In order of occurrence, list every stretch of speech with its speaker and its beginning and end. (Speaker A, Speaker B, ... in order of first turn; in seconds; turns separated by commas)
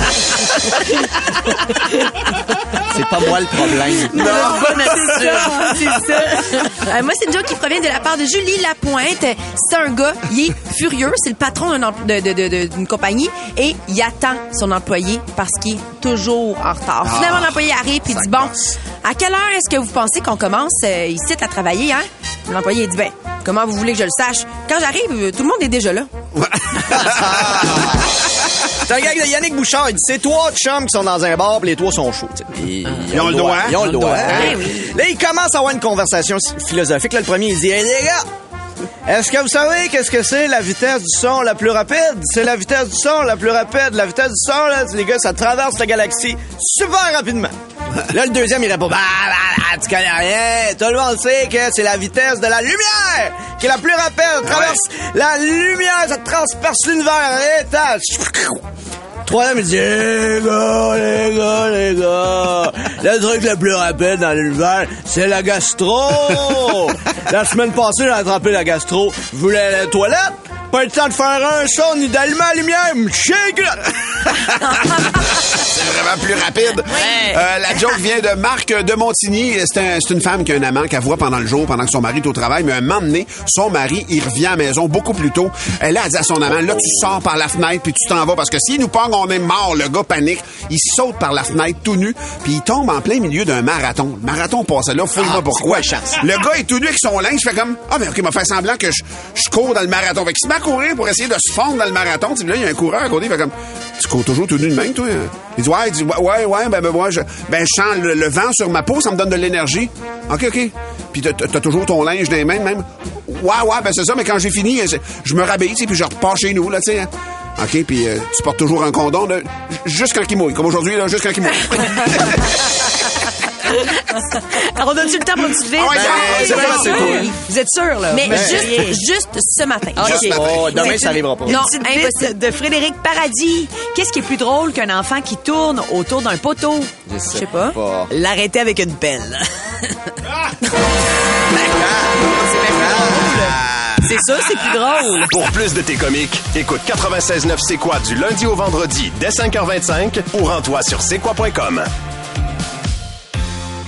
Speaker A: 2.8-4.7, Speaker B: 4.1-26.1, Speaker C: 4.1-5.8, Speaker D: 4.2-4.8, Speaker D: 17.0-18.8, Speaker D: 26.3-27.8, Speaker A: 26.9-28.2, Speaker A: 28.8-38.2, Speaker D: 33.1-33.9, Speaker C: 34.0-34.5, Speaker B: 34.3-34.7, Speaker A: 39.1-47.5, Speaker A: 48.1-58.6, Speaker D: 54.4-54.8, Speaker A: 59.2-74.3, Speaker D: 75.2-122.6, Speaker A: 95.2-96.2, Speaker C: 124.5-129.0, Speaker D: 125.8-127.1, Speaker A: 125.9-127.3, Speaker B: 126.0-127.3, Speaker B: 128.1-132.3, Speaker A: 128.2-128.8, Speaker C: 129.9-136.9, Speaker A: 130.0-131.7, Speaker A: 137.1-138.1, Speaker B: 137.3-137.8, Speaker C: 138.1-140.2, Speaker A: 141.6-144.0, Speaker C: 142.2-145.3, Speaker E: 145.3-151.9